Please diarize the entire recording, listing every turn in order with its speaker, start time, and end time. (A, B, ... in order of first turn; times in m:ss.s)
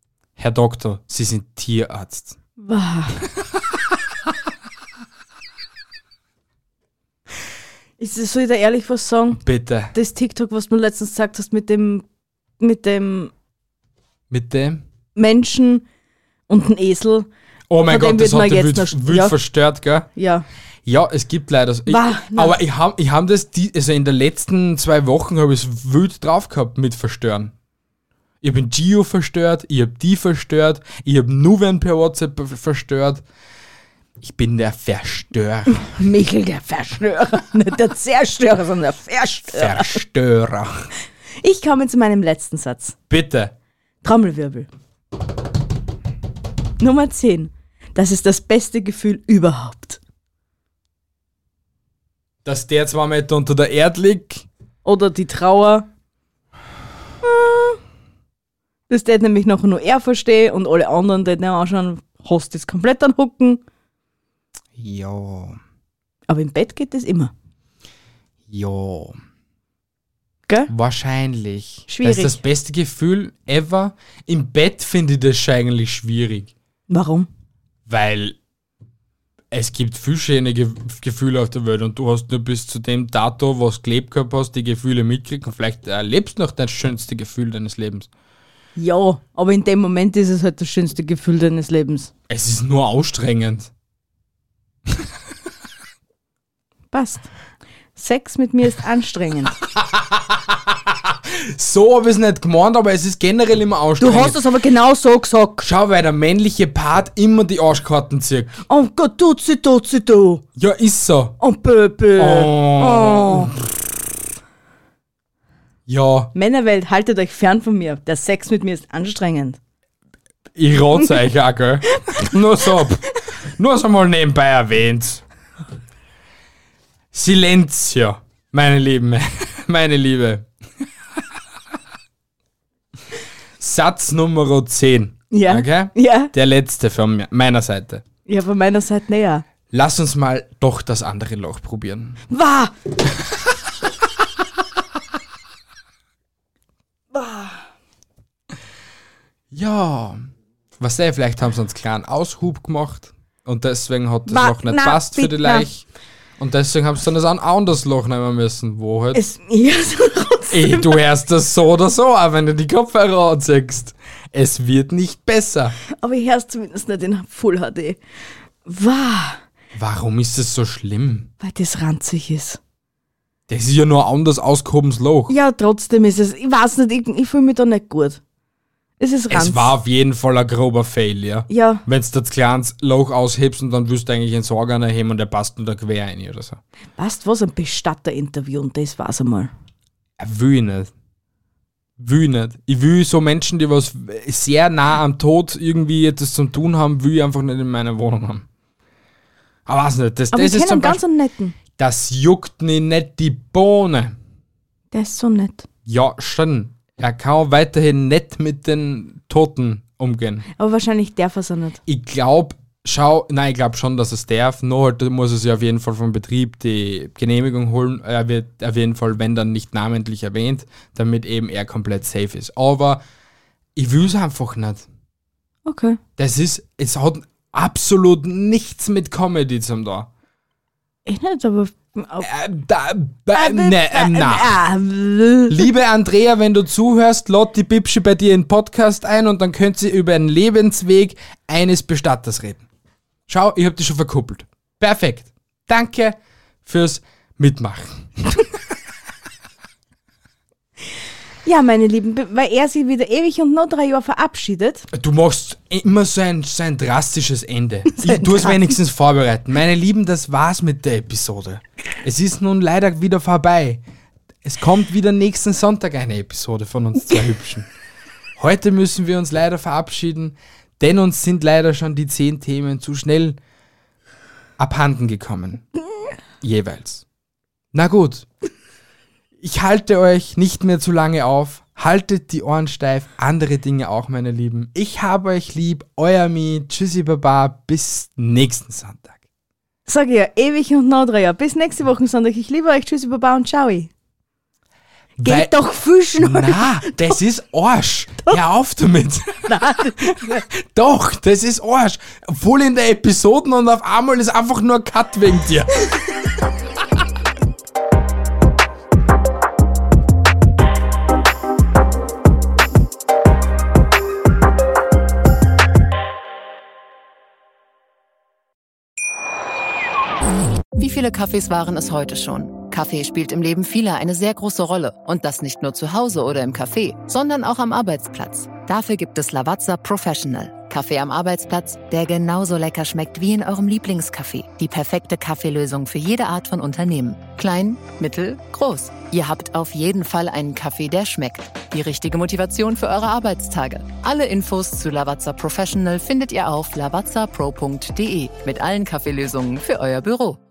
0:00.4-0:02.4 A
0:02.6-0:03.2 B
0:08.0-0:09.4 B
0:09.4-0:09.9 A
0:09.9-0:12.0 B
0:12.6-0:13.3 B
0:14.3-0:14.8 A
0:15.1-0:15.8 B
0:16.5-0:17.3 B
0:17.7-0:20.1 A
0:17.8-0:19.4 B
0:20.2-0:20.4 B
0:20.8-0:27.5 A
0:21.9-0:22.6 B
0:28.4-0:33.2 A
0:34.2-0:35.9 A
0:35.7-0:40.0 B
0:39.4-0:40.9 A
0:41.4-0:43.0 B
0:43.1-0:43.5 A
0:44.0-0:44.7 B
0:46.8-0:50.0 B
0:52.4-0:54.4 A
0:54.8-0:55.9 B
0:57.2-0:57.8 B
0:58.9-1:03.6 B
1:04.8-1:05.6 A
1:06.3-1:07.3 B
1:08.5-1:09.2 A
1:10.7-1:16.5 A
1:11.9-1:12.4 B
1:16.9-1:17.3 B
1:17.9-1:18.4 A
1:19.5-1:28.1 A
1:28.8-1:32.1 B
1:32.3-1:33.7 A
1:36.9-1:37.3 B
1:38.0-1:39.6 B
1:39.7-1:44.4 A
1:44.0-1:45.6 B
1:45.6-1:48.5 A
1:48.7-1:50.4 B
1:50.6-1:51.4 A
1:51.4-1:53.6 B
1:52.2-1:53.6 A
1:55.9-1:56.3 A
1:56.3-1:59.6 B
2:00.6-2:05.2 A
2:07.1-2:10.5 A
2:13.6-2:18.0 A
2:15.3-2:16.3 B
2:18.3-2:19.4 B
2:19.7-2:22.2 A
2:22.3-2:22.7 B
2:27.1-2:27.6 B
2:29.5-2:30.2 A
2:30.8-2:35.8 A
2:34.3-2:35.7 B
2:36.4-2:39.2 A
2:39.1-2:41.0 B
2:40.5-2:45.8 A
2:45.9-2:48.0 B
2:48.6-2:49.4 B
2:49.7-2:51.3 A
2:51.4-2:52.6 B
2:53.5-2:55.3 A
2:55.3-2:58.2 B
2:59.0-2:59.7 B
2:59.3-3:06.6 A
3:01.5-3:01.8 B
3:07.0-3:09.5 B
3:10.2-3:10.9 A
3:12.0-3:18.4 A
3:19.7-3:21.0 A
3:20.3-3:21.6 B
3:21.8-3:24.1 A
3:24.9-3:25.6 B
3:25.8-3:30.4 A
3:30.6-3:31.8 B
3:31.9-3:43.0 A
3:43.8-3:44.8 A
3:45.6-3:46.0 B
3:46.2-3:50.1 A
3:51.0-3:52.3 B
3:52.2-3:54.6 A
3:53.3-3:55.6 B
3:55.5-4:02.6 A
4:03.3-4:08.4 A
4:11.4-4:14.9 B
4:14.9-4:23.8 A
4:17.9-4:18.6 B
4:24.4-4:27.7 A
4:28.4-4:33.4 A
4:34.6-4:35.6 A
4:36.4-4:37.0 A
4:37.7-4:38.3 A
4:39.4-4:49.1 A
4:49.8-4:53.9 B
4:55.2-4:55.5 A
4:55.2-4:57.1 B
4:56.2-5:05.7 A
4:59.5-5:00.4 B
5:20.7-5:50.4 C